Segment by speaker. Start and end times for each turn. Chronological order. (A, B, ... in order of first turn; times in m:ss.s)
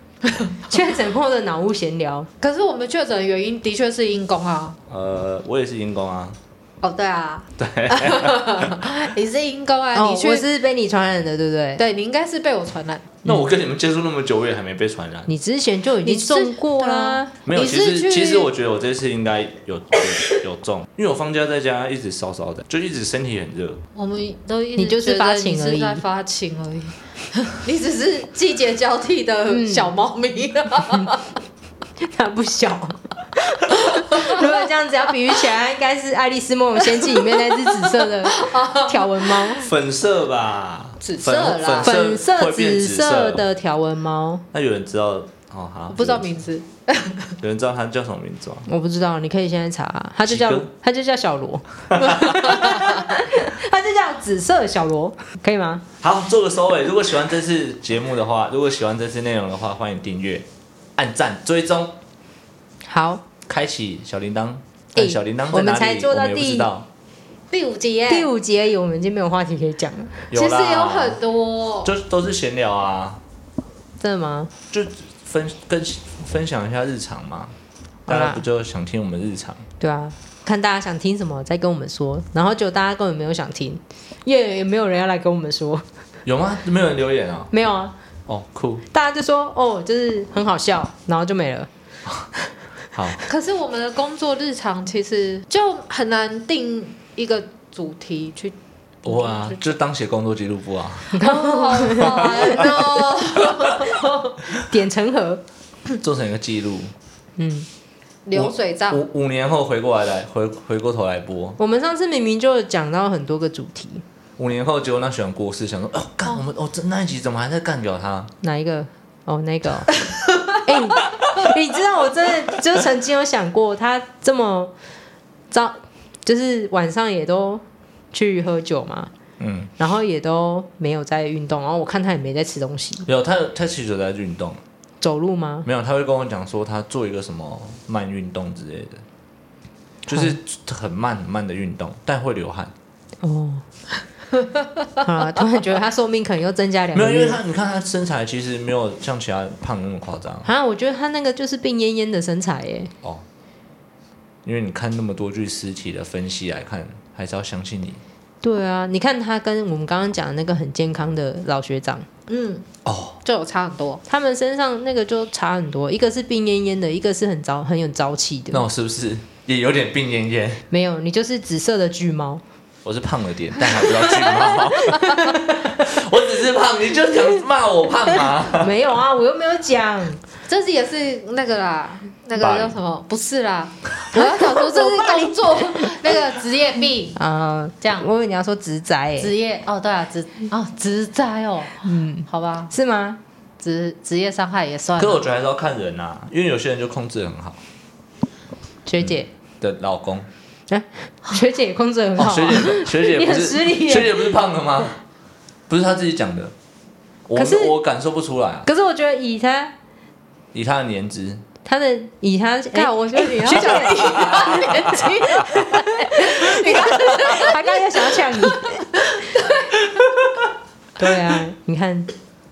0:00.7-0:02.3 A
0:02.4-0:04.8 B
0:04.9-0:06.4 C
0:06.8-0:10.4 B
0:07.6-0:09.0 C
0:10.0-0:11.8 A
0:11.8-0:13.1 B
0:13.2-0:15.3 C
0:15.3-0:17.3 A
0:16.0-0:18.5 B
0:17.4-0:23.8 C
0:24.0-0:31.2 B
0:24.8-0:26.0 A
0:29.5-0:29.9 A
0:30.9-0:31.2 A
0:32.0-0:39.7 A
0:33.9-0:34.4 B
0:36.9-0:39.6 B
0:39.6-0:43.4 C
0:41.0-0:41.9 B
0:41.8-0:44.4 A
0:44.5-0:46.3 C
0:45.9-0:47.3 B
0:47.4-0:48.7 C
0:48.7-0:55.9 A
0:50.3-0:50.7 C
0:51.9-0:52.6 C
0:56.0-1:00.4 C
1:01.0-1:02.0 C
1:02.9-1:03.3 A
1:03.4-1:06.9 C
1:05.0-1:06.7 A
1:07.5-1:08.3 B
1:08.1-1:10.3 A
1:10.3-1:11.2 C
1:10.3-1:11.9 B
1:11.8-1:13.2 C
1:14.0-1:14.5 A
1:14.7-1:17.5 C
1:18.0-1:19.7 C
1:18.1-1:18.4 A
1:19.8-1:25.9 A
1:26.3-1:27.5 C
1:27.5-1:28.0 A
1:28.3-1:28.8 C
1:28.9-1:31.7 A
1:32.9-1:33.2 C
1:33.3-1:38.6 B
1:39.0-1:41.2 C
1:39.1-1:39.6 B
1:41.1-1:43.0 A
1:41.1-1:44.3 B
1:44.5-1:45.4 A
1:46.0-1:46.9 C
1:47.4-1:47.7 A
1:48.3-1:49.0 B
1:48.3-1:51.6 C
1:51.6-1:54.0 A
1:54.4-1:58.3 C
1:58.4-1:59.9 A
2:00.6-2:04.7 A
2:05.5-2:09.1 A
2:09.4-2:09.7 C
2:09.8-2:13.1 A
2:13.0-2:14.6 C
2:15.0-2:15.7 A
2:15.6-2:19.0 C
2:20.1-2:22.7 C
2:23.2-2:23.6 A
2:25.0-2:27.4 A
2:26.9-2:30.5 C
2:30.4-2:32.9 A
2:34.4-2:38.0 C
2:38.4-2:42.1 A
2:42.3-2:42.7 B
2:42.8-2:43.2 C
2:43.2-2:44.0 B
2:44.1-2:48.7 A
2:48.5-2:50.6 C
2:50.7-2:52.4 A
2:52.8-2:58.8 C
2:53.6-2:55.8 A
2:58.5-3:00.2 A
3:00.5-3:07.2 B
3:02.4-3:02.7 C
3:04.1-3:06.2 A
3:07.2-3:09.3 A
3:07.8-3:08.1 B
3:09.2-3:12.7 B
3:11.8-3:13.2 A
3:13.6-3:15.2 B
3:15.0-3:17.6 C
3:18.9-3:19.3 A
3:19.0-3:20.3 C
3:20.7-3:24.3 A
3:22.2-3:25.0 C
3:25.7-3:26.5 C
3:27.3-3:28.7 C
3:27.4-3:27.8 A
3:28.6-3:29.7 A
3:30.5-3:31.4 C
3:31.6-3:38.9 A
3:32.7-3:37.8 B
3:33.7-3:35.1 C
3:39.0-3:39.8 B
3:39.9-3:40.3 C
3:41.0-3:42.1 A